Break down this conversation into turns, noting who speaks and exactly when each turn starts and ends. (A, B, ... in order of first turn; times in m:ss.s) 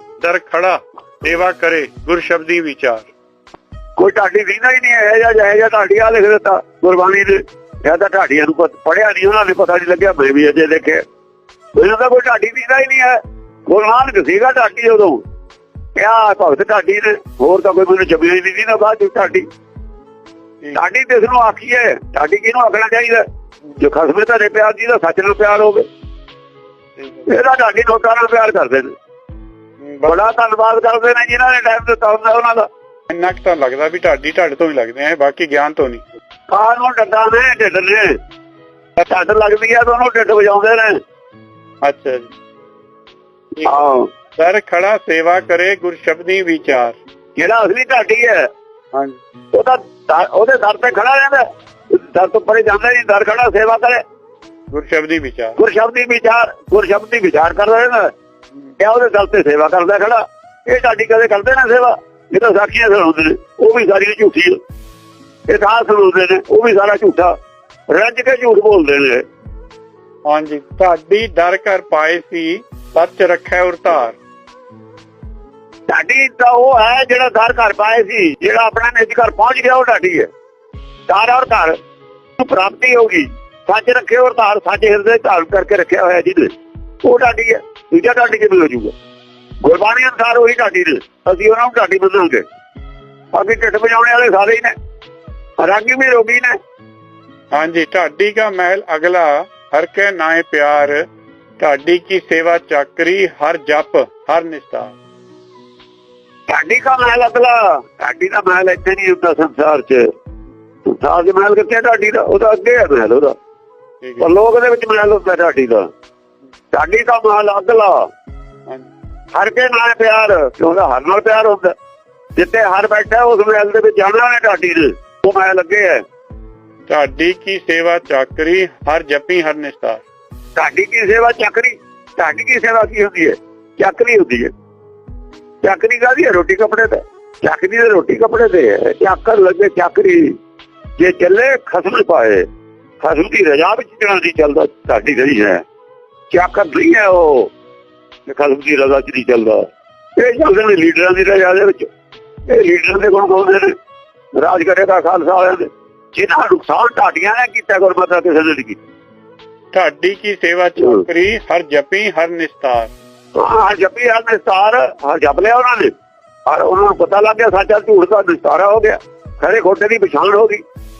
0:00.2-0:03.1 A
0:04.0-0:11.0 B
0:11.7-0:15.2 B
0:16.0-0:19.5 B
0:20.7-0:23.2 B
0:23.8-0:25.9 B
0:27.0-0:27.2 A
0:27.3-0:28.9 B
0:29.8-0:30.2 A
0:30.0-0:32.7 B
0:33.1-0:36.0 A
0:36.5-0:38.2 B
0:39.0-0:41.0 B
0:41.8-0:42.3 A
0:43.6-0:44.1 B
0:44.4-0:47.0 A
0:47.4-0:48.4 B
0:49.5-0:54.0 B
0:54.7-0:55.6 A
0:55.6-0:58.1 B
0:58.8-1:04.6 B
1:05.5-1:07.3 B
1:07.9-1:09.2 B
1:10.2-1:14.2 A
1:15.9-1:20.3 B
1:21.1-1:21.8 B
1:22.4-1:26.5 B
1:27.0-1:28.9 B
1:29.6-1:32.4 B
1:33.3-1:34.7 B
1:35.6-1:36.5 B
1:37.5-1:41.0 A
1:41.6-1:45.0 A
1:46.5-1:50.1 B
1:50.9-1:53.3 B
1:54.0-1:54.3 A
1:54.2-1:55.9 B
1:56.7-1:58.1 B
1:59.3-2:01.7 B
2:02.4-2:06.0 B
2:06.9-2:10.0 A
2:10.6-2:14.5 B
2:15.6-2:20.4 B
2:21.0-2:22.5 B
2:23.0-2:25.6 B
2:26.3-2:27.5 B
2:28.3-2:31.9 B
2:32.5-2:33.7 B
2:34.4-2:38.8 B
2:39.7-2:42.9 A
2:43.3-2:45.9 B
2:46.5-2:50.6 B